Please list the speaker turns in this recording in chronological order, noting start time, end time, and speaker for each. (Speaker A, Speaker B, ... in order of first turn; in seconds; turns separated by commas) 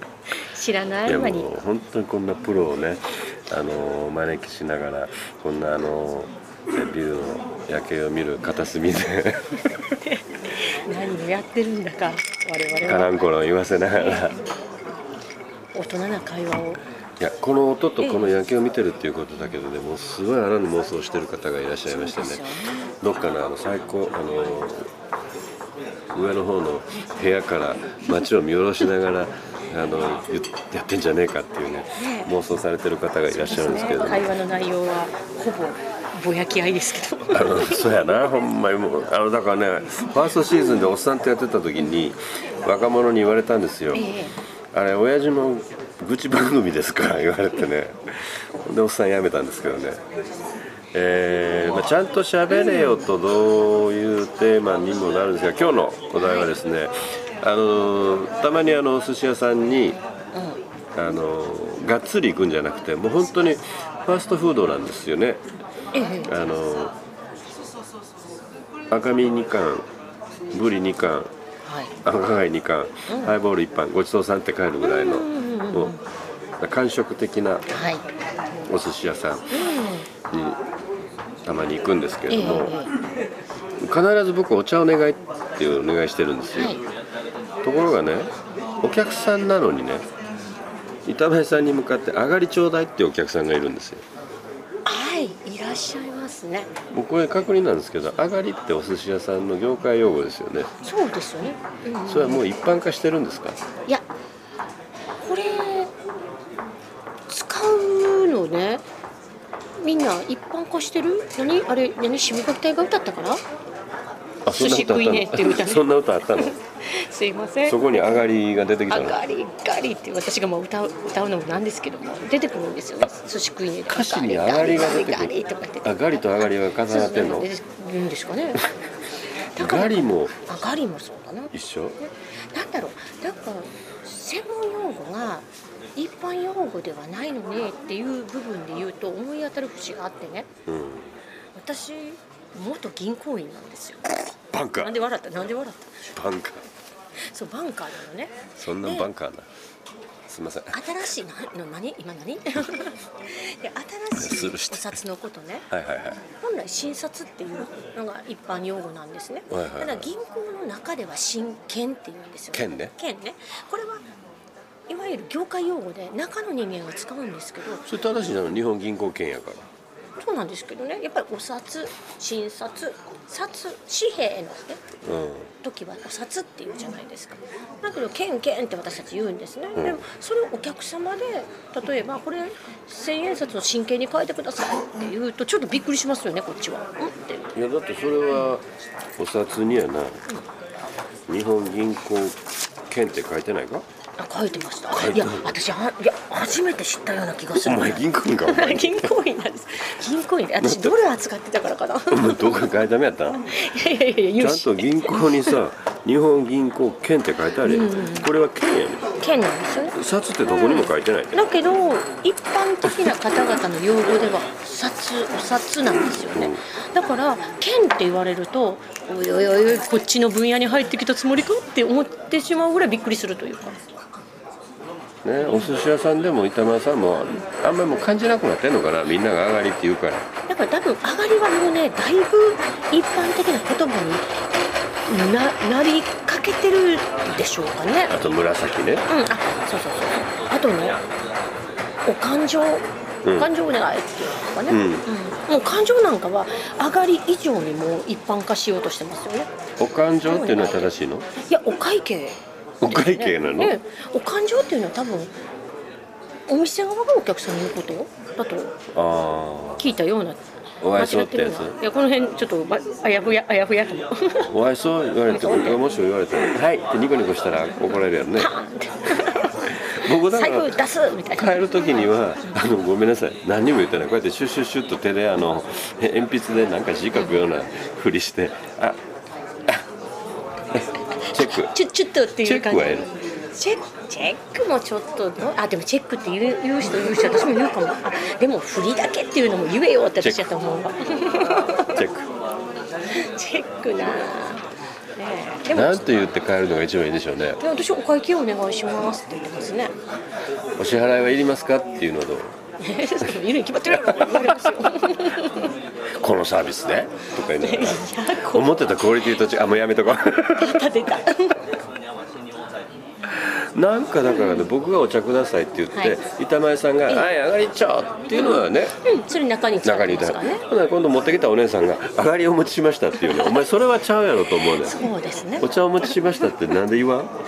Speaker A: 0.3-1.5, Speaker B: 1.1-9.6, Speaker A: 9.7-13.2, Speaker B: 12.8-14.4, Speaker A: 13.9-14.4, Speaker A: 15.7-16.8, Speaker B: 17.2-22.4, Speaker A: 18.0-18.3, Speaker A: 21.9-22.9, Speaker B: 23.0-24.9, Speaker B: 26.1-34.3, Speaker A: 32.0-32.3, Speaker A: 33.4-38.0, Speaker B: 37.3-44.1, Speaker A: 43.9-44.3, Speaker B: 44.7-50.0, Speaker B: 50.9-60.0, Speaker A: 52.5-53.1, Speaker A: 56.2-56.5, Speaker A: 60.4-60.6, Speaker B: 61.0-65.4, Speaker A: 65.9-66.3, Speaker B: 66.2-67.0, Speaker B: 68.9-69.9, Speaker B: 70.5-71.3, Speaker A: 71.7-71.9, Speaker B: 72.0-76.0, Speaker A: 73.1-73.3, Speaker A: 74.8-76.0, Speaker B: 76.6-77.7, Speaker A: 77.7-78.1, Speaker B: 78.7-79.7, Speaker A: 79.5-80.1, Speaker B: 80.3-80.6, Speaker B: 81.5-82.8, Speaker A: 82.3-82.9, Speaker B: 83.8-86.8, Speaker A: 86.5-86.8, Speaker B: 87.6-88.3, Speaker B: 88.8-90.1, Speaker B: 91.1-94.0, Speaker A: 94.8-96.7, Speaker B: 96.9-100.7, Speaker A: 100.8-102.4, Speaker B: 102.1-103.6, Speaker A: 105.2-105.9, Speaker A: 107.3-108.8, Speaker A: 109.8-113.4, Speaker B: 114.5-116.5, Speaker A: 114.5-118.2, Speaker B: 117.7-119.2, Speaker A: 118.9-128.7, Speaker B: 123.9-127.5, Speaker A: 129.5-140.5, Speaker B: 129.6-130.5, Speaker B: 131.5-132.0, Speaker B: 140.7-141.1, Speaker A: 141.6-144.2, Speaker B: 144.5-145.1, Speaker A: 144.8-146.1, Speaker B: 146.2-146.7, Speaker A: 147.3-149.1, Speaker B: 148.6-149.5, Speaker B: 150.3-150.9, Speaker A: 150.7-155.7, Speaker B: 154.2-155.0, Speaker B: 155.7-156.2, Speaker A: 156.4-164.1, Speaker B: 159.5-160.1, Speaker B: 162.5-162.9, Speaker A: 164.9-167.9, Speaker B: 167.9-169.7, Speaker A: 170.2-174.8, Speaker B: 175.0-175.5, Speaker A: 175.6-187.6, Speaker B: 179.8-180.0, Speaker B: 187.6-188.6, Speaker B: 189.2-190.2, Speaker B: 191.3-192.4, Speaker B: 192.9-193.8, Speaker A: 194.2-202.7, Speaker B: 194.9-195.6, Speaker B: 197.5-199.2, Speaker B: 200.6-201.0, Speaker B: 202.1-203.5, Speaker A: 203.5-205.6, Speaker B: 204.4-209.2, Speaker A: 207.6-208.3, Speaker A: 209.2-223.8, Speaker B: 209.9-211.3, Speaker B: 216.3-216.6, Speaker B: 225.2-230.3, Speaker A: 230.5-234.3, Speaker A: 235.1-238.2, Speaker B: 238.1-239.1, Speaker A: 239.1-241.0, Speaker A: 242.1-249.5, Speaker B: 244.7-245.1, Speaker B: 249.8-251.3, Speaker A: 250.2-250.9, Speaker A: 251.4-255.3, Speaker B: 252.8-253.8, Speaker A: 256.5-258.8, Speaker B: 258.9-259.9, Speaker A: 259.8-260.4, Speaker B: 260.8-261.8, Speaker A: 260.9-264.5, Speaker B: 264.5-268.5, Speaker A: 265.3-265.9, Speaker A: 268.3-271.6, Speaker B: 269.2-279.0, Speaker B: 280.7-281.8, Speaker A: 281.1-292.0, Speaker B: 282.4-283.1, Speaker B: 290.2-290.5, Speaker B: 291.9-292.3, Speaker A: 293.1-296.2, Speaker B: 295.7-297.6, Speaker A: 297.6-299.9, Speaker B: 300.8-302.6, Speaker A: 302.8-305.7, Speaker B: 304.1-304.5, Speaker B: 306.2-310.9, Speaker A: 307.6-309.3, Speaker A: 310.4-311.7, Speaker B: 313.3-319.0, Speaker A: 318.3-320.6, Speaker B: 319.8-325.1, Speaker A: 323.2-323.6, Speaker A: 324.6-326.1, Speaker B: 325.6-327.3